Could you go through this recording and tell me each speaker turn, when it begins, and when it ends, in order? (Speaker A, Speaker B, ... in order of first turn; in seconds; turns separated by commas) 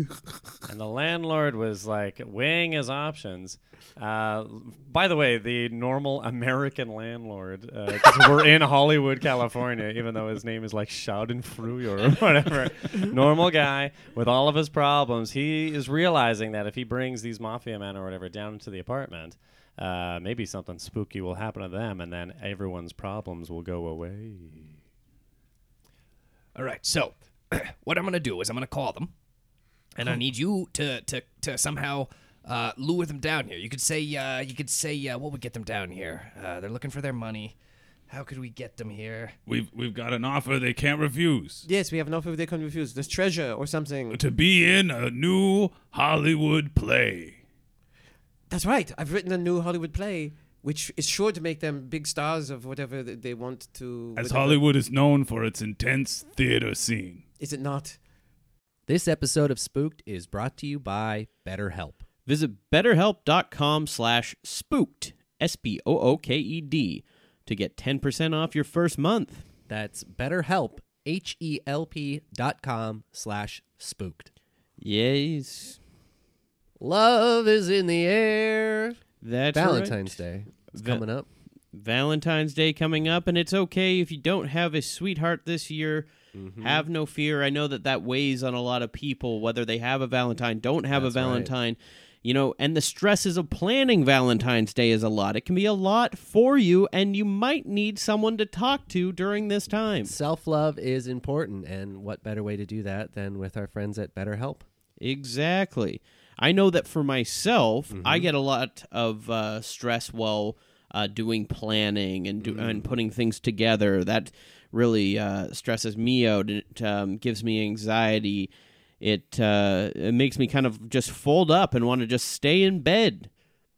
Speaker A: 0.7-24.7, Speaker B: 26.5-29.1, Speaker B: 29.9-37.5, Speaker B: 38.1-39.4, Speaker C: 39.5-41.6, Speaker D: 41.6-44.2, Speaker C: 44.1-47.4, Speaker D: 48.5-54.6, Speaker C: 54.1-57.2, Speaker D: 57.4-58.0, Speaker E: 58.9-62.0, Speaker F: 62.2-69.5, Speaker E: 69.7-74.3, Speaker F: 74.8-75.8, Speaker E: 76.8-79.0, Speaker F: 79.2-80.2, Speaker E: 79.5-81.3, Speaker F: 80.7-81.0, Speaker F: 81.7-100.1, Speaker E: 86.3-86.9, Speaker E: 90.9-91.5, Speaker E: 100.0-104.7, Speaker F: 105.0-123.3, Speaker E: 107.9-108.3, Speaker E: 112.4-112.9